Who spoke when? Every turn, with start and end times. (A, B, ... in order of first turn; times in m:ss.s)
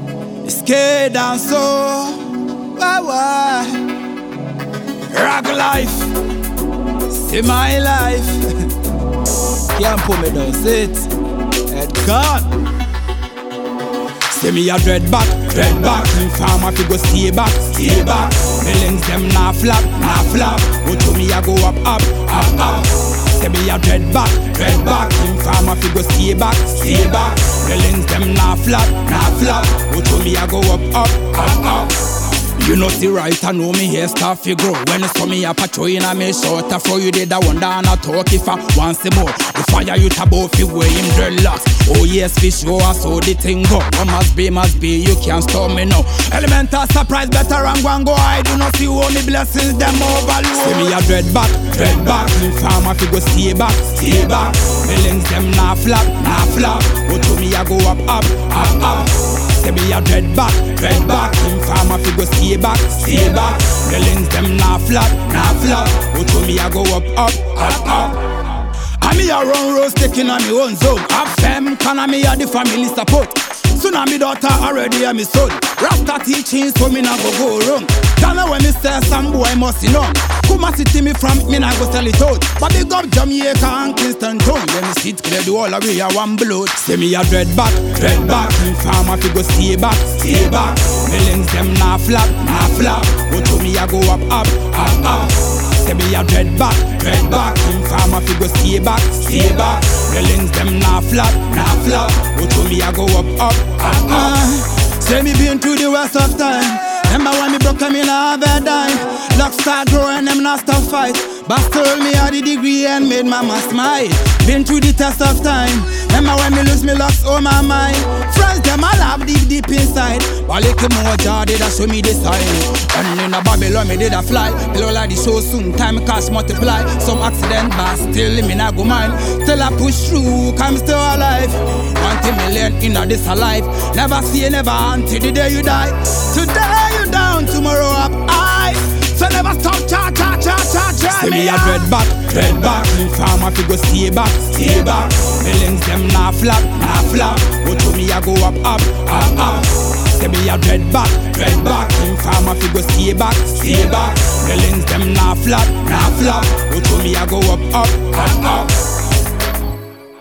0:00.4-0:03.9 A
0:05.1-0:06.2 A
0:07.1-0:08.7 A
0:09.7-0:11.1 A
0:11.7-0:12.5 A
0:14.3-1:08.4 A
1:08.9-2:38.8 A